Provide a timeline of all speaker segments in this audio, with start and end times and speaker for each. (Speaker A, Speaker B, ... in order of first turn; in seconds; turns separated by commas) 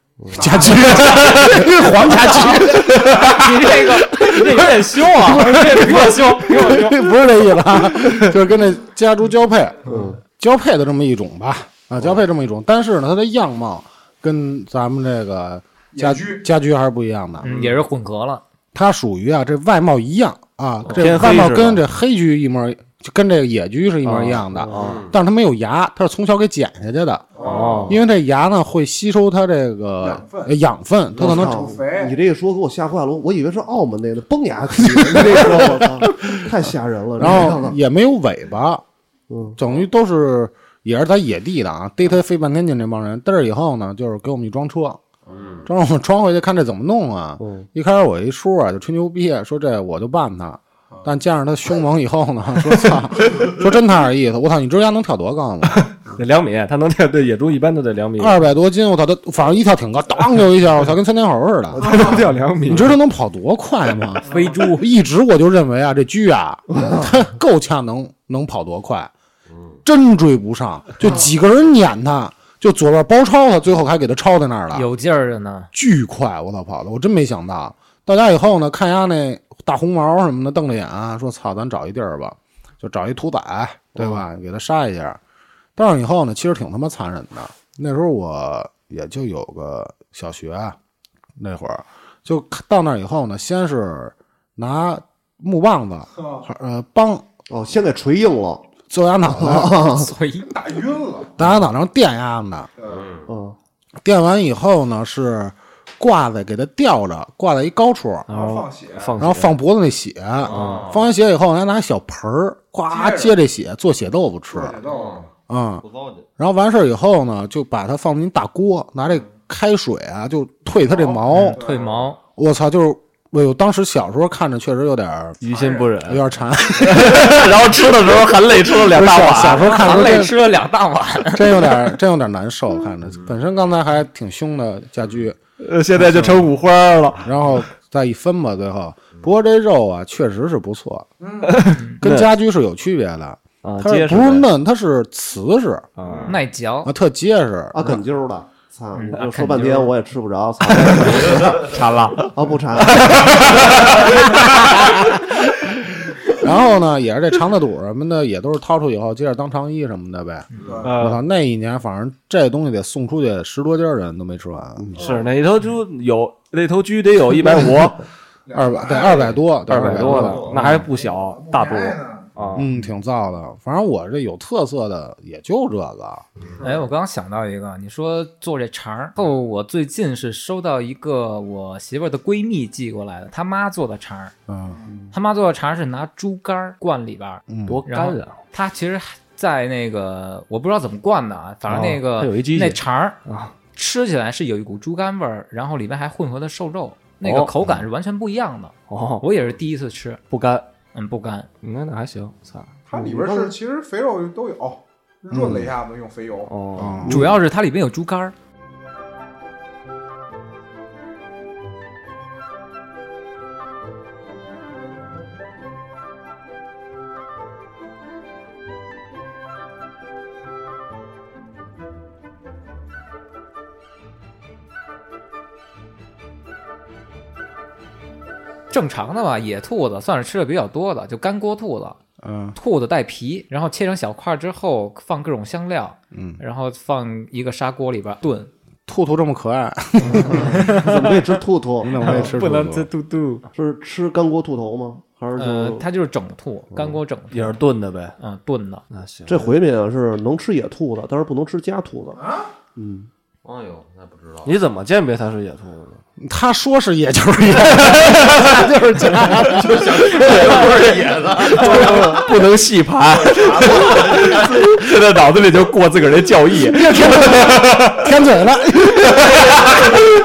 Speaker A: 0.2-0.7, Speaker B: 0.3-3.7, Speaker C: 2.2-7.1, Speaker B: 4.2-17.6, Speaker A: 9.9-10.2, Speaker D: 15.9-16.4, Speaker C: 17.4-18.4, Speaker E: 17.5-17.8, Speaker B: 18.7-27.3, Speaker F: 20.9-21.8, Speaker F: 24.0-25.0, Speaker A: 24.5-25.0, Speaker E: 24.8-25.1, Speaker D: 27.3-27.9, Speaker E: 27.4-27.9, Speaker F: 27.4-28.0, Speaker B: 27.9-31.6, Speaker D: 30.0-30.5, Speaker D: 31.2-32.1, Speaker A: 31.2-37.8, Speaker B: 34.8-36.5, Speaker B: 37.2-38.8, Speaker A: 39.3-39.6, Speaker B: 39.6-45.0, Speaker E: 45.3-45.7, Speaker B: 45.6-55.9, Speaker A: 47.4-47.7, Speaker F: 55.7-58.4, Speaker B: 58.2-69.1, Speaker F: 61.7-63.0, Speaker C: 64.2-64.8, Speaker B: 69.8-74.9, Speaker C: 74.7-75.7, Speaker B: 75.7-85.2, Speaker B: 85.8-90.8, Speaker B: 91.4-97.2, Speaker D: 96.2-96.4, Speaker A: 97.5-98.7, Speaker B: 98.9-99.8, Speaker A: 99.2-100.1, Speaker C: 99.9-100.5, Speaker D: 100.5-101.4, Speaker B: 101.4-102.7, Speaker D: 102.8-103.1, Speaker E: 102.8-103.3, Speaker A: 103.3-103.5, Speaker B: 104.0-108.3, Speaker F: 108.3-109.5, Speaker D: 108.3-109.2, Speaker B: 109.2-114.8, Speaker E: 110.4-111.1, Speaker F: 110.5-110.9, Speaker D: 112.9-113.4, Speaker D: 114.5-115.3, Speaker E: 114.8-115.3, Speaker B: 115.5-115.8, Speaker E: 115.8-116.2, Speaker B: 116.4-121.6, Speaker D: 120.8-122.0, Speaker C: 121.3-122.2, Speaker B: 122.3-125.4, Speaker F: 125.4-129.8, Speaker D: 125.5-125.9, Speaker B: 126.0-127.5, Speaker B: 128.7-130.4, Speaker C: 129.4-131.8, Speaker B: 131.3-135.4, Speaker F: 135.6-137.3, Speaker B: 136.0-136.5, Speaker B: 137.2-141.1, Speaker D: 141.2-141.7, Speaker F: 141.4-142.3, Speaker C: 141.7-142.0, Speaker B: 142.0-145.9, Speaker F: 143.6-144.4, Speaker F: 145.9-146.3, Speaker E: 146.0-146.3, Speaker C: 146.3-146.9, Speaker B: 146.8-148.0, Speaker A: 147.7-151.7, Speaker C: 148.9-149.9, Speaker F: 151.0-154.4, Speaker A: 152.3-153.9, Speaker B: 154.7-155.4, Speaker B: 156.3-164.9, Speaker E: 160.5-160.9, Speaker D: 160.6-161.0, Speaker F: 160.8-161.2, Speaker F: 164.9-168.0, Speaker D: 168.5-170.2, Speaker B: 168.5-170.8, Speaker F: 169.7-172.7, Speaker E: 170.1-170.7, Speaker D: 170.8-172.5, Speaker B: 172.6-176.2, Speaker C: 176.6-184.3, Speaker B: 184.5-184.8, Speaker C: 185.1-193.2, Speaker B: 187.5-187.8, Speaker F: 187.7-188.4, Speaker F: 191.7-193.5, Speaker C: 193.7-200.2, Speaker F: 197.2-197.5, Speaker F: 198.9-199.2, Speaker F: 200.3-200.7, Speaker C: 200.9-201.5, Speaker F: 201.6-202.7, Speaker D: 202.9-206.5, Speaker B: 205.3-205.7, Speaker F: 206.5-207.0, Speaker B: 206.8-207.3, Speaker C: 207.1-208.3, Speaker C: 228.7-232.0, Speaker B: 232.2-232.6, Speaker C: 232.6-238.5, Speaker B: 236.1-236.4, Speaker B: 238.9-240.7, Speaker A: 240.1-242.3, Speaker C: 240.4-241.1, Speaker B: 241.8-242.9, Speaker C: 242.0-243.4, Speaker A: 243.5-245.8, Speaker C: 245.3-247.5, Speaker F: 247.3-248.2, Speaker C: 248.2-248.8, Speaker F: 248.9-249.5, Speaker A: 249.3-252.2, Speaker A: 252.8-253.1, Speaker E: 253.4-254.5, Speaker F: 254.4-256.0, Speaker B: 256.2-260.0, Speaker F: 258.0-258.4, Speaker F: 259.8-268.1, Speaker E: 259.8-262.2, Speaker A: 261.8-262.2, Speaker E: 263.4-264.4, Speaker D: 263.6-264.0, Speaker B: 266.5-269.7